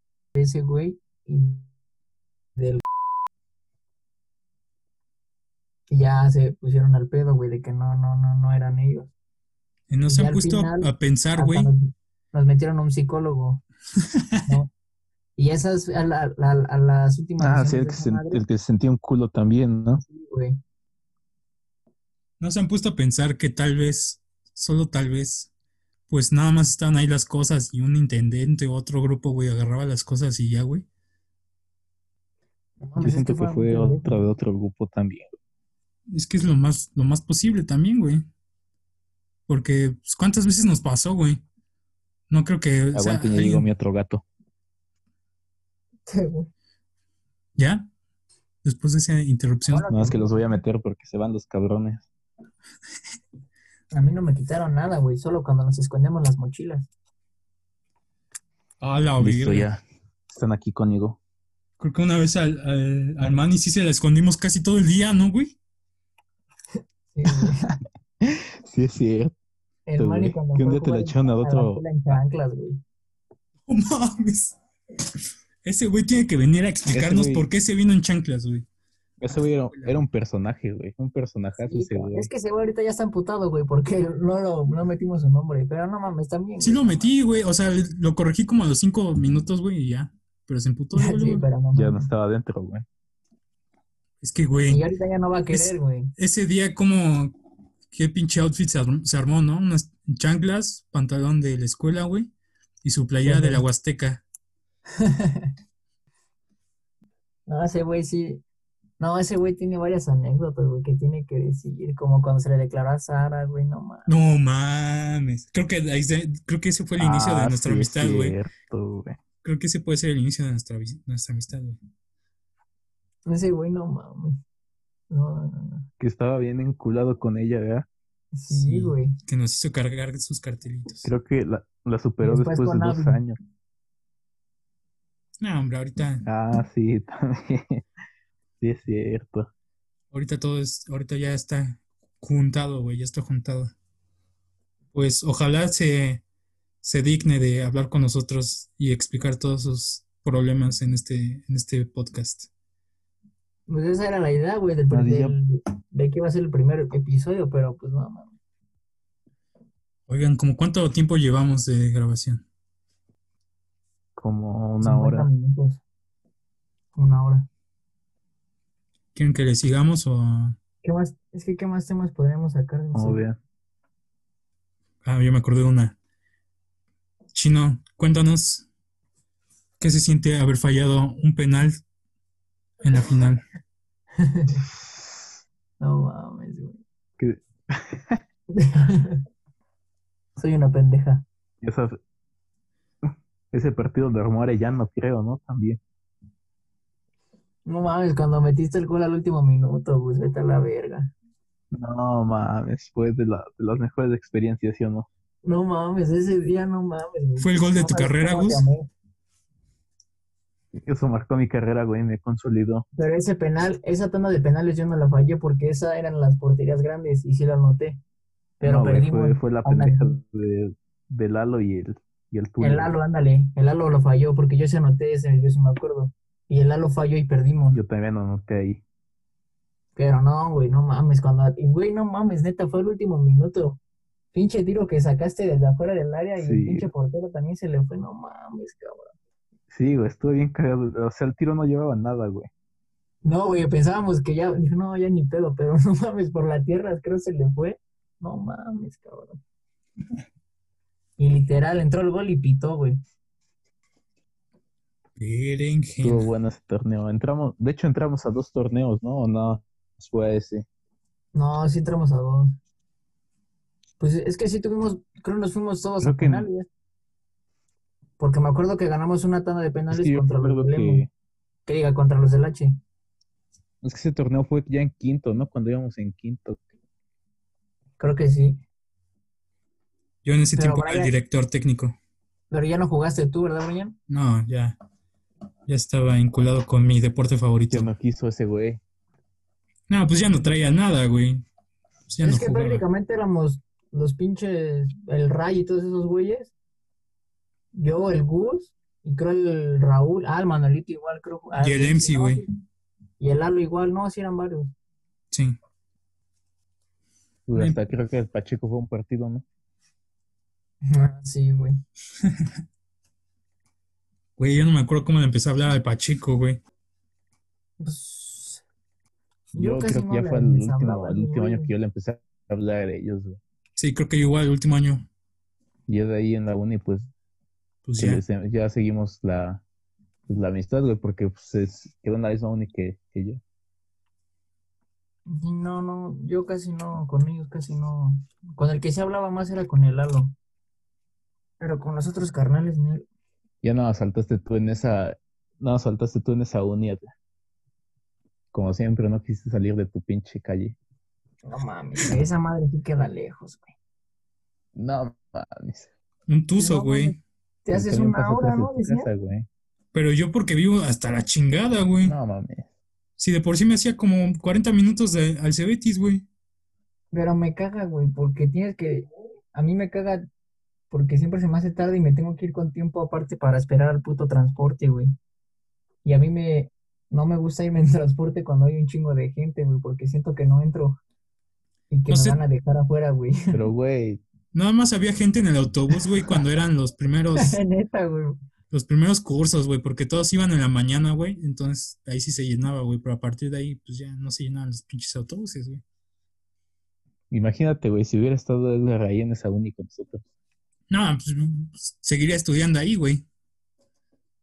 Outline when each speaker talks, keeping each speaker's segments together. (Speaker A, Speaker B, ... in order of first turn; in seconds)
Speaker A: 0.3-1.7, 2.6-2.8, 5.9-9.1, 10.1-13.6, 15.4-18.4, 20.0-20.6, 32.8-34.3, 46.1-46.5, 49.7-50.5, 53.9-56.9, 67.1-67.7, 69.9-72.8, 81.6-87.1, 91.0-92.1, 94.7-96.1, 103.2-103.6, 105.0-105.5, 107.5-108.4, 109.0-114.1, 123.3-124.4, 125.1-125.9, 128.3-129.2, 132.2-133.2, 153.7-158.4, 164.8-165.8, 166.9-167.5, 170.8-173.2, 184.2-184.7, 185.8-186.8, 188.5-189.2, 190.4-191.2, 197.7-201.1, 205.4-208.9, 213.0-218.0, 218.6-220.2, 222.6-227.8, 230.0-233.8, 234.3-239.1, 243.2-249.4, 251.2-253.0, 261.3-262.6, 264.0-266.7, 268.2-271.1, 271.7-272.8, 278.0-278.6, 280.6-281.1, 282.5-284.0, 292.2-296.5, 297.7-302.5, 303.2-304.7, 310.8-311.8, 317.8-318.6, 319.5-321.7, 335.3-340.3, 341.6-343.1, 351.4-353.7, 356.6-359.1, 367.1-370.3, 370.9-375.1, 376.1-381.0, 381.9-383.6, 387.4-388.4
Speaker B: 9.9-11.7, 13.9-14.5, 22.4-25.5, 26.1-30.9, 36.1-38.2, 39.5-41.4, 42.3-43.7, 47.6-47.9, 48.6-49.9, 58.8-59.7, 61.8-65.6, 73.7-74.6, 75.6-78.7, 79.7-80.0, 86.6-91.5, 94.2-94.8, 95.5-97.3, 97.9-102.3, 102.8-104.2, 114.1-118.4, 119.4-121.8, 128.5-131.1, 135.4-136.2, 140.1-143.7, 144.9-146.2, 146.8-152.5, 160.1-162.4, 169.2-170.6, 175.0-176.0, 177.3-178.7, 179.8-181.8, 182.8-183.4, 207.4-208.7, 255.2-256.3, 280.2-282.0, 284.1-284.8, 285.7-287.9, 289.9-291.4, 292.1-292.8, 301.6-302.4, 305.3-305.6, 307.5-307.8, 312.2-312.5, 314.4-316.6, 323.8-325.1, 327.9-328.2, 356.3-357.2, 359.9-362.1, 363.2-366.2, 382.1-382.4, 384.5-387.6, 388.7-395.8, 400.9-403.2
Speaker C: 17.4-20.0, 33.0-35.4, 42.9-44.2, 49.9-52.1, 59.2-61.2, 67.3-69.3, 70.0-72.2, 76.9-77.5, 79.2-82.3, 91.7-92.8, 117.0-119.2, 126.0-127.9, 131.0-133.4, 136.2-137.8, 138.6-139.5, 154.9-155.4, 164.2-165.3, 172.9-173.4, 187.2-188.2, 191.6-192.0, 193.5-195.8, 201.7-205.1, 210.8-212.9, 218.6-223.0, 227.7-228.8, 236.4-236.9, 239.7-242.5, 256.0-260.6, 266.0-266.5, 269.9-271.1, 273.8-276.6, 287.7-288.8, 307.5-309.4, 319.5-323.4, 325.9-327.1, 328.0-329.6, 330.3-333.4, 343.6-347.1, 348.5-350.8, 354.8-355.9, 357.7-359.5, 362.0-362.7, 383.5-384.2, 397.3-400.2